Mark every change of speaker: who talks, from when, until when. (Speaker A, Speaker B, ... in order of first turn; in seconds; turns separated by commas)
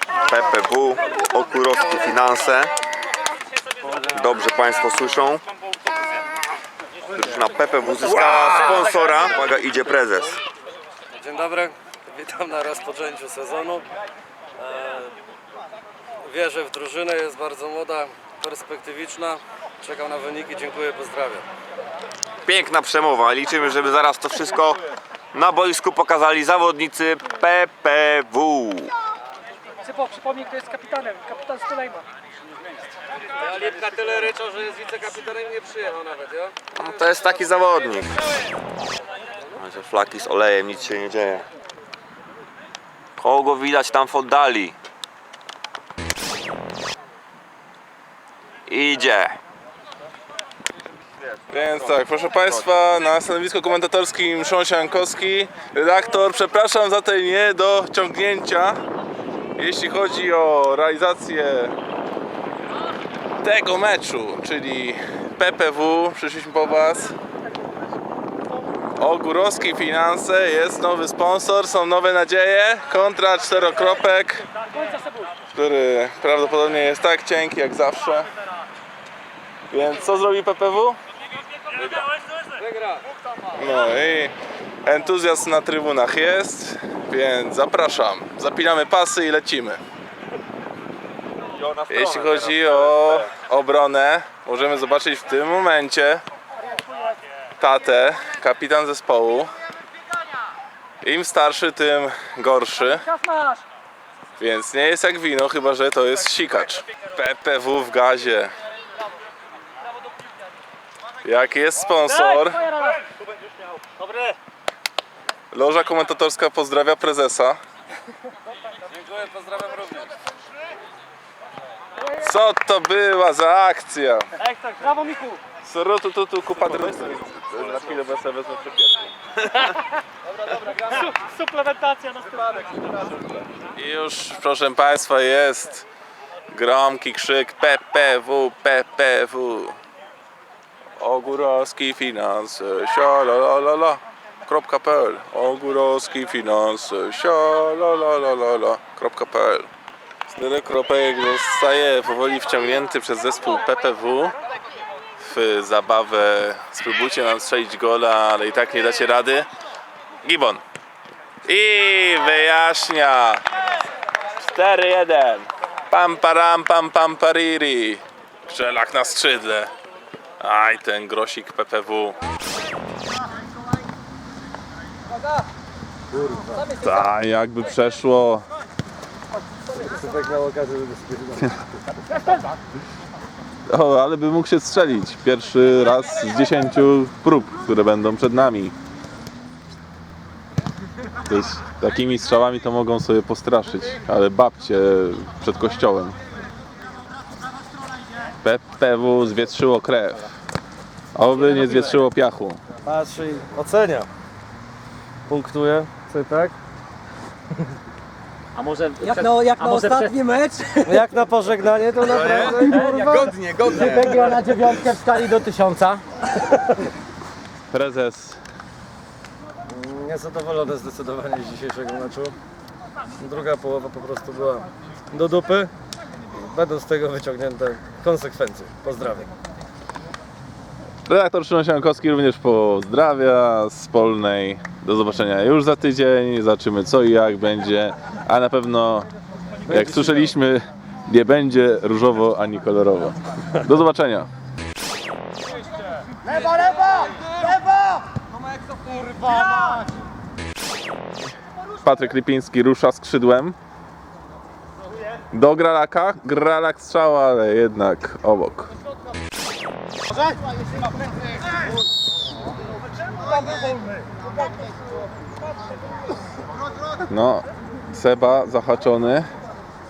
Speaker A: 0.2-2.7, Speaker A: 4.0-5.4, Speaker A: 7.1-10.4, Speaker B: 11.2-13.8, Speaker B: 14.6-15.1, Speaker B: 16.2-21.5, Speaker A: 22.5-24.8, Speaker A: 25.3-28.9, Speaker C: 29.9-32.0, Speaker B: 33.3-36.5, Speaker A: 36.8-38.2, Speaker A: 39.5-41.4, Speaker A: 43.2-44.8, Speaker A: 48.7-49.4, Speaker D: 51.5-58.8, Speaker D: 59.6-61.7, Speaker D: 63.4-67.1, Speaker D: 69.0-74.5, Speaker D: 75.5-78.3, Speaker D: 79.7-81.0, Speaker B: 82.6-83.0, Speaker D: 83.6-84.3, Speaker D: 84.8-89.8, Speaker D: 91.9-96.2, Speaker D: 97.6-99.5, Speaker D: 101.0-103.2, Speaker D: 104.4-108.5, Speaker D: 111.2-112.7, Speaker D: 115.5-117.6, Speaker B: 119.0-120.1, Speaker D: 122.2-124.3, Speaker C: 124.8-125.4, Speaker D: 125.6-129.1, Speaker C: 131.2-132.4, Speaker D: 133.8-135.9, Speaker D: 136.5-139.8, Speaker D: 141.0-149.7, Speaker D: 150.3-154.3, Speaker D: 155.2-159.5, Speaker D: 160.2-160.6, Speaker D: 161.4-163.4, Speaker D: 164.4-169.7, Speaker D: 170.4-172.2, Speaker B: 176.1-176.6, Speaker D: 176.8-178.4, Speaker B: 179.7-181.5, Speaker D: 183.7-188.8, Speaker D: 191.3-196.2, Speaker D: 198.4-200.3, Speaker D: 201.1-202.6, Speaker B: 202.8-204.1, Speaker B: 205.3-206.6, Speaker C: 208.5-210.1, Speaker E: 209.0-211.0, Speaker B: 210.8-214.3, Speaker A: 212.1-212.6, Speaker C: 212.6-213.1, Speaker E: 212.6-216.0, Speaker A: 213.3-213.8, Speaker D: 217.7-218.4, Speaker B: 219.7-222.3, Speaker B: 223.2-225.7, Speaker B: 226.3-229.3, Speaker D: 231.1-239.1, Speaker D: 239.7-244.3, Speaker D: 251.8-253.6, Speaker D: 255.3-258.7, Speaker D: 267.1-269.3